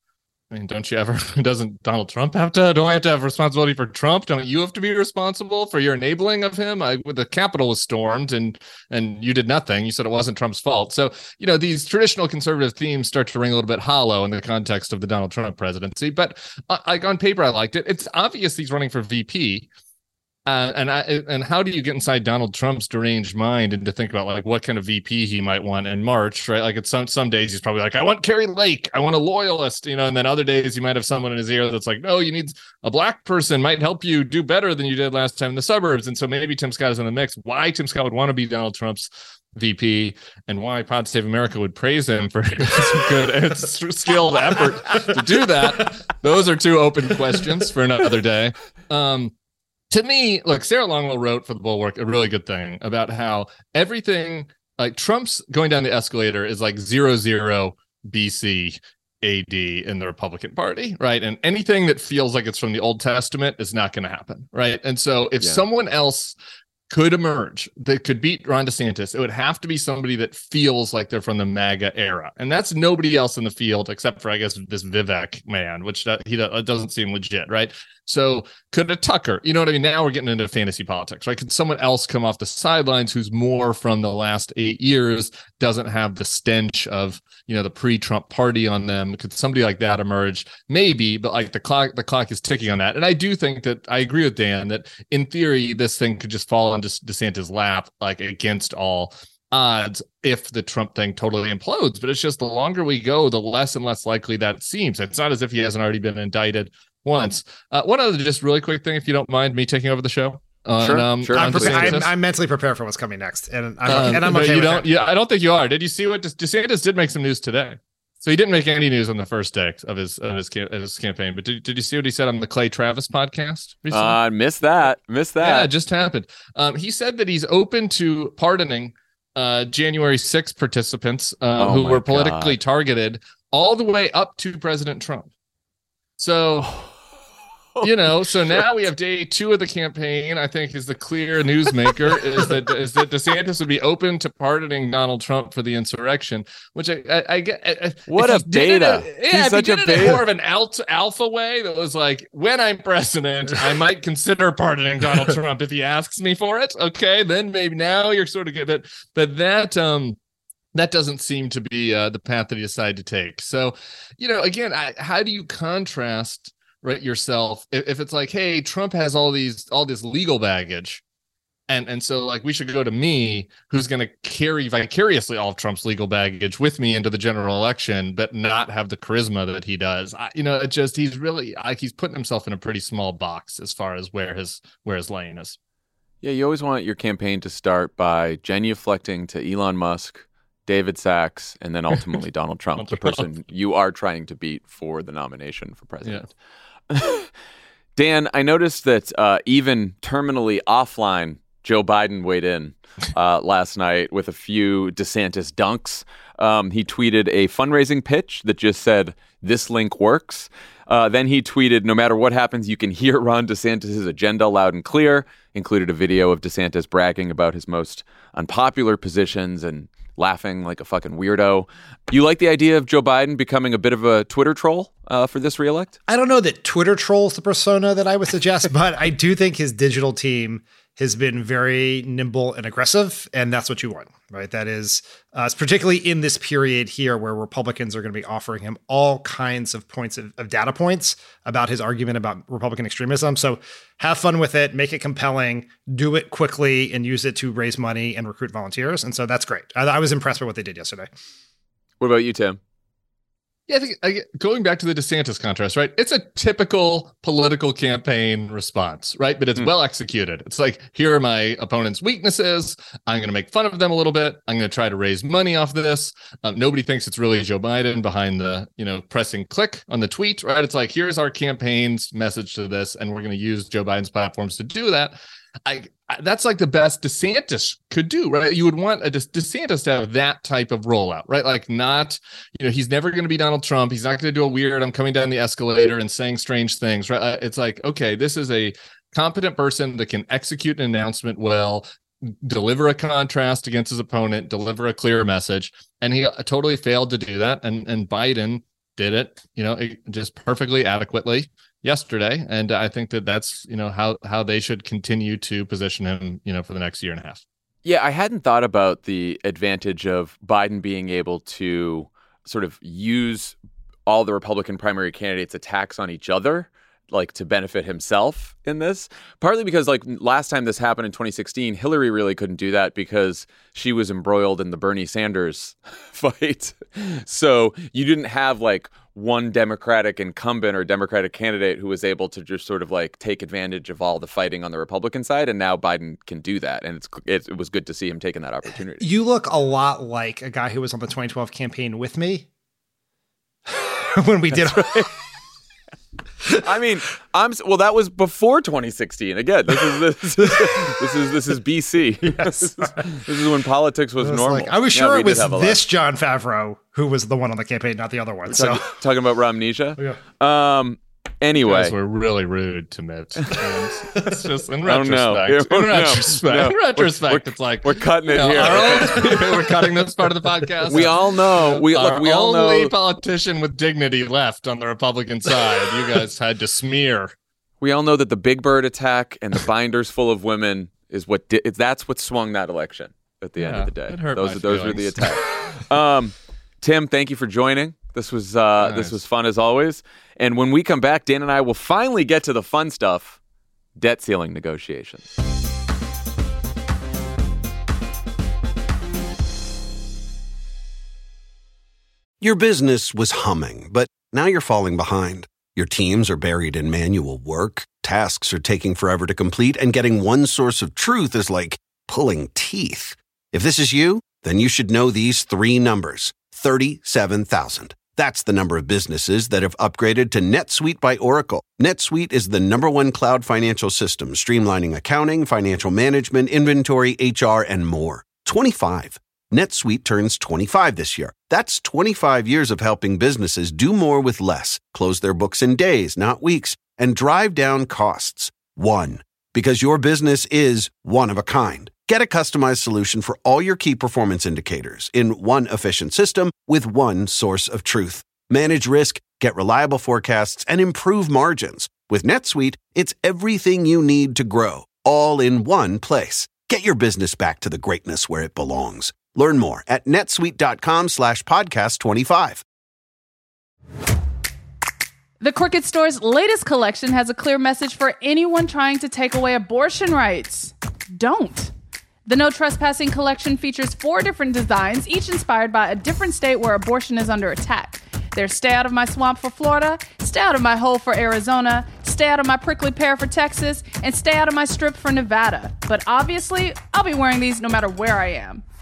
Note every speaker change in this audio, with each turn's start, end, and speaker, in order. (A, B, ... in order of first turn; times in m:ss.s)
0:00.5-0:19.7 A
0:20.5-0:49.3 A
0:49.9-1:06.4 A
1:05.4-1:05.6 B
1:06.9-1:52.1 A
1:50.8-1:52.0 B
1:51.4-1:54.9 C
1:53.9-2:04.2 A
1:53.9-1:54.2 B
2:03.9-2:05.7 B
2:05.4-2:15.3 A
2:11.6-2:12.6 B
2:16.2-2:16.9 A
2:17.8-2:18.6 B
2:17.8-2:40.2 A
2:28.1-2:30.2 B
2:40.8-2:51.0 A
2:51.7-3:05.6 A
3:06.2-3:16.2 B
3:12.8-3:13.3 A
3:16.9-3:17.3 B
3:18.0-3:46.0 B
3:46.1-4:11.1 C
4:12.0-4:12.6 B
4:13.7-5:07.4 A
5:07.8-5:39.1 B
5:39.0-5:42.5 C
5:43.7-5:45.0 C
5:44.5-5:45.1 B
5:46.5-5:55.8 B
5:50.6-5:50.9 C
5:52.2-5:53.2 C
5:54.2-5:58.8 C
5:58.5-6:02.0 B
6:01.7-6:17.4 A
6:04.9-6:10.2 B
6:10.9-6:12.9 B
6:17.8-6:33.4 B
6:23.6-6:25.4 A
6:28.8-6:29.2 A
6:34.0-6:35.3 B
6:42.4-7:42.6 D
7:45.4-7:51.7 E
7:52.3-8:08.6 E